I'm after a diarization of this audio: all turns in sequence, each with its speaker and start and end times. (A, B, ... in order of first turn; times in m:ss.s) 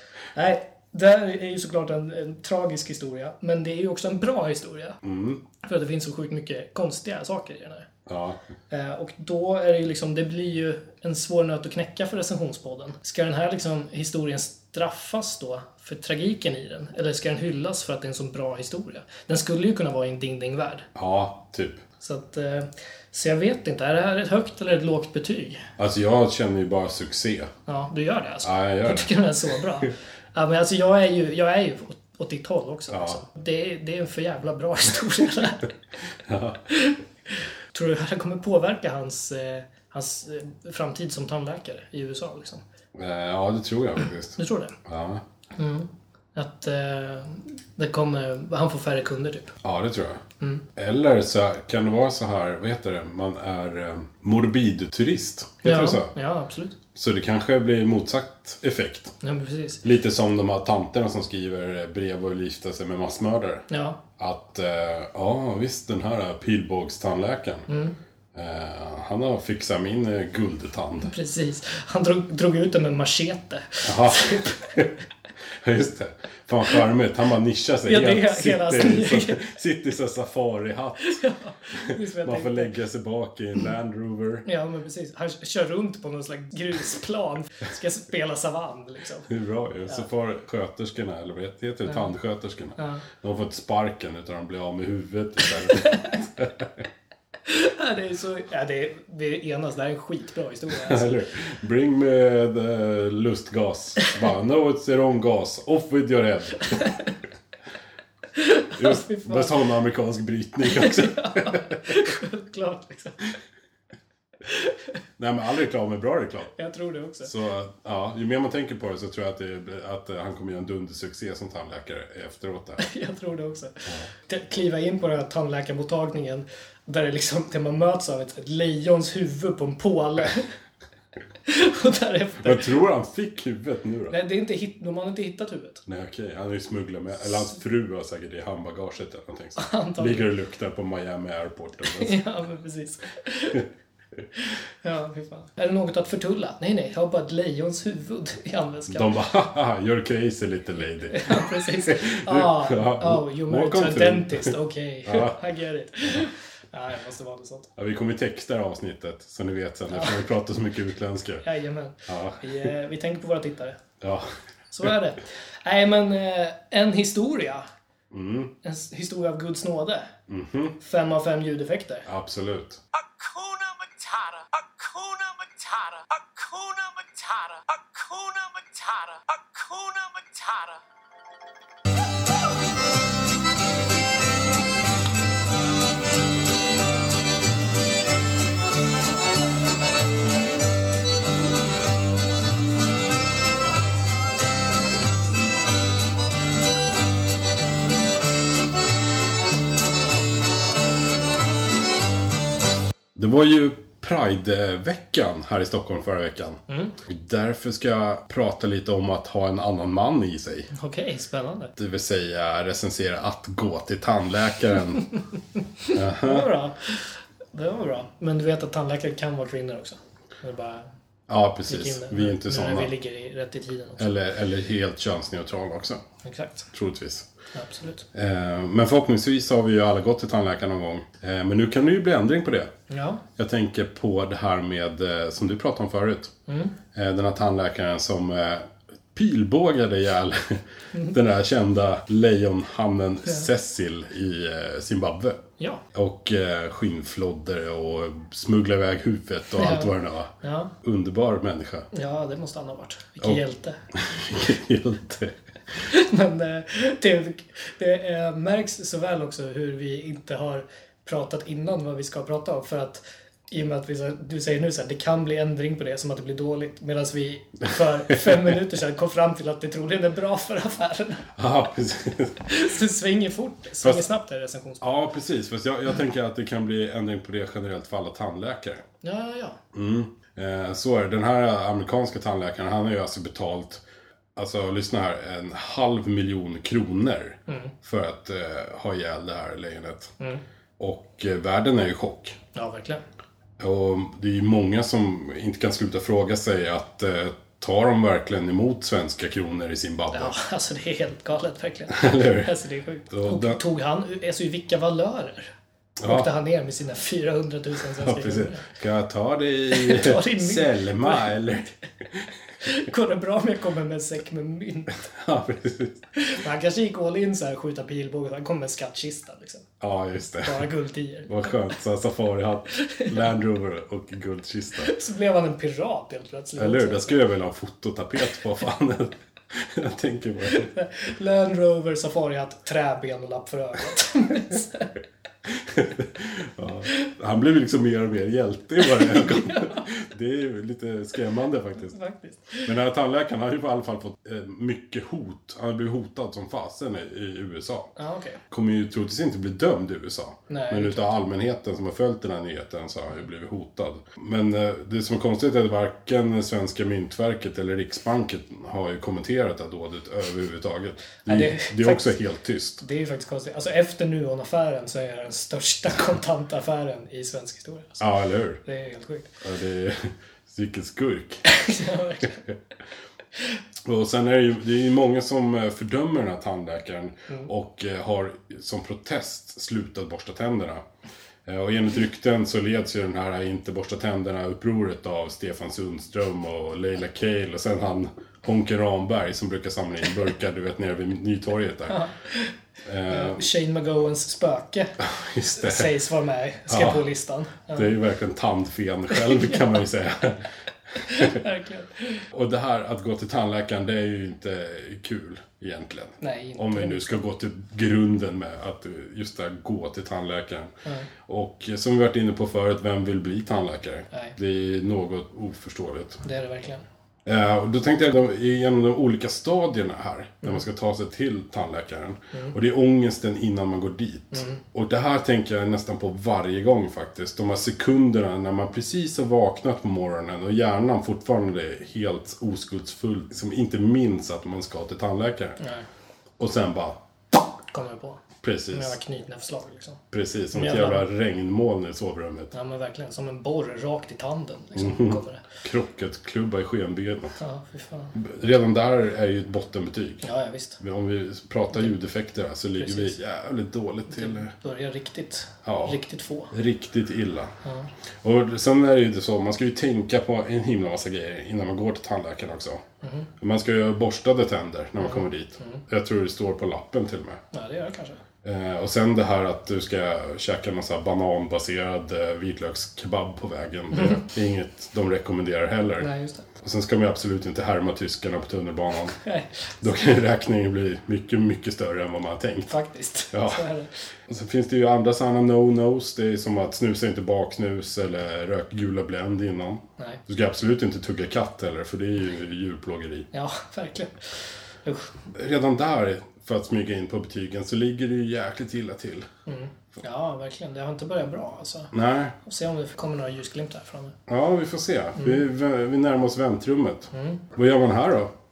0:00.3-0:05.0 A
0:05.0-0:05.4 B
0:05.6-0:07.9 A
0:08.1-0:08.4 B
0:08.7-0:20.9 A
0:20.9-0:21.8 B
0:22.0-0:25.7 A
0:25.8-0:27.5 B
0:27.7-0:35.7 A
0:28.4-0:29.1 B
0:32.9-0:33.2 B
0:36.2-0:36.6 B
0:36.7-0:42.6 A
0:42.9-0:45.2 B
0:44.4-0:44.8 A
0:45.6-0:49.6 A
0:49.6-0:50.2 B
0:50.8-0:56.1 B
0:55.6-0:56.8 A
0:56.9-0:59.1 B
0:59.2-0:59.8 A
0:59.8-1:07.7 B
1:03.7-1:04.0 A
1:07.7-1:07.9 A
1:08.3-1:11.1 B
1:11.0-1:14.9 A
1:13.8-1:14.9 B
1:15.6-1:21.2 B
1:17.9-1:19.5 A
1:21.0-1:22.7 A
1:21.7-1:24.4 B
1:24.4-1:29.3 A
1:29.3-1:36.9 B
1:32.8-1:33.0 A
1:35.7-1:36.1 A
1:37.4-1:41.2 A
1:40.7-1:46.9 B
1:46.6-1:47.2 A
1:48.3-1:49.6 A
1:48.8-1:52.0 B
1:50.6-1:53.3 A
1:54.4-1:54.9 A
1:55.2-1:56.5 B
1:56.6-1:57.3 A
1:57.2-2:02.8 B
2:02.8-2:10.5 A
2:11.5-2:12.7 A
2:12.4-2:14.2 B
2:14.1-2:15.8 A
2:15.9-2:22.2 B
2:19.6-2:20.3 A
2:21.9-2:23.6 A
2:24.4-2:29.1 A
2:28.9-2:35.4 B
2:31.1-2:37.7 A
2:37.8-2:41.4 B
2:39.9-2:40.2 A
2:41.4-2:43.8 A
2:42.1-2:42.7 B
2:44.0-2:44.3 B
2:44.7-2:47.7 A
2:48.1-2:48.5 B
2:48.6-2:50.1 A
2:50.3-2:50.8 B
2:50.8-2:52.1 A
2:52.1-2:52.8 B
2:53.0-3:00.8 C
3:23.1-3:30.7 B
3:26.7-3:27.0 A
3:30.7-3:31.8 A
3:31.8-3:35.1 B
3:35.8-3:40.9 A
3:35.9-3:36.5 B
3:41.3-3:42.9 B
3:41.7-3:44.1 A
3:44.0-3:46.0 B
3:46.2-3:46.7 A
3:46.7-3:47.3 B
3:47.5-3:48.1 A
3:48.1-3:52.7 B
3:52.9-3:53.2 A
3:53.4-3:56.3 B
3:56.5-3:56.8 A
3:56.9-4:05.4 B
4:05.6-4:05.8 A
4:05.9-4:11.9 B
4:09.6-4:10.7 A
4:11.9-4:13.8 A
4:13.9-4:15.4 B
4:15.8-4:31.3 A
4:31.4-4:32.5 B
4:32.4-4:35.0 A
4:34.8-4:38.8 B
4:39.0-4:39.6 A
4:39.7-4:43.8 B
4:44.4-4:50.1 B
4:47.5-4:47.7 A
4:50.8-4:52.4 B
4:52.6-4:53.0 A
4:53.6-5:00.3 B
5:00.1-5:05.5 A
5:01.9-5:02.5 B
5:03.1-5:03.6 B
5:06.0-5:06.3 B
5:06.0-5:08.6 A
5:07.9-5:12.3 B
5:09.7-5:11.5 A
5:12.6-5:15.0 A
5:15.0-5:16.0 B
5:16.1-5:19.7 A
5:19.8-5:20.7 B
5:20.4-5:21.7 A
5:21.3-5:24.9 B
5:22.7-5:23.2 A
5:24.8-5:27.2 A
5:26.6-5:30.7 B
5:30.5-5:35.0 A
5:35.5-5:42.0 B
5:38.8-5:39.9 A
5:41.9-5:42.7 A
5:42.6-5:47.9 B
5:48.0-5:48.4 A
5:48.5-6:02.8 B
5:50.5-5:51.0 A
6:01.2-6:02.1 A
6:02.8-6:08.0 A
6:08.0-6:08.6 B
6:08.6-6:09.3 A
6:09.4-6:11.4 B
6:11.4-6:12.5 A
6:13.8-6:20.8 B
6:21.5-6:32.0 B
6:31.9-6:32.5 A
6:32.8-6:33.5 B
6:33.1-6:37.9 A
6:35.0-6:36.0 B
6:36.7-6:37.0 B
6:37.7-6:41.4 B
6:39.1-6:39.8 A
6:41.0-6:42.2 A
6:42.3-6:50.7 B
6:46.2-6:47.2 A
6:51.3-6:56.2 B
6:56.2-6:56.8 A
6:57.3-7:15.6 B
7:04.3-7:04.6 A
7:15.6-7:15.9 A
7:16.4-7:17.0 B
7:17.7-7:20.0 A
7:18.4-7:19.0 B
7:20.1-7:22.5 B
7:20.5-7:21.0 A
7:22.5-7:25.4 A
7:24.8-7:27.4 B
7:27.4-7:28.2 A
7:28.1-7:30.3 B
7:30.2-7:30.8 A
7:30.8-7:34.5 B
7:32.8-7:33.2 A
7:34.1-7:36.5 A
7:35.6-7:36.0 B
7:36.5-7:37.5 B
7:37.6-7:37.9 A
7:38.2-7:42.8 B
7:43.0-7:43.3 A
7:43.4-7:47.4 B
7:45.0-7:45.8 A
7:47.5-7:48.2 A
7:48.4-7:59.2 B
7:53.9-7:54.2 A
7:56.0-7:56.5 A
7:59.2-7:59.8 A
7:59.8-8:02.7 B
8:02.7-8:03.9 A
8:03.3-8:03.6 B
8:04.3-8:13.3 B
8:13.3-8:14.2 A
8:14.8-8:15.1 A
8:15.3-8:19.3 B
8:19.5-8:24.2 A
8:21.9-8:22.4 B
8:24.3-8:28.3 B
8:27.1-8:27.4 A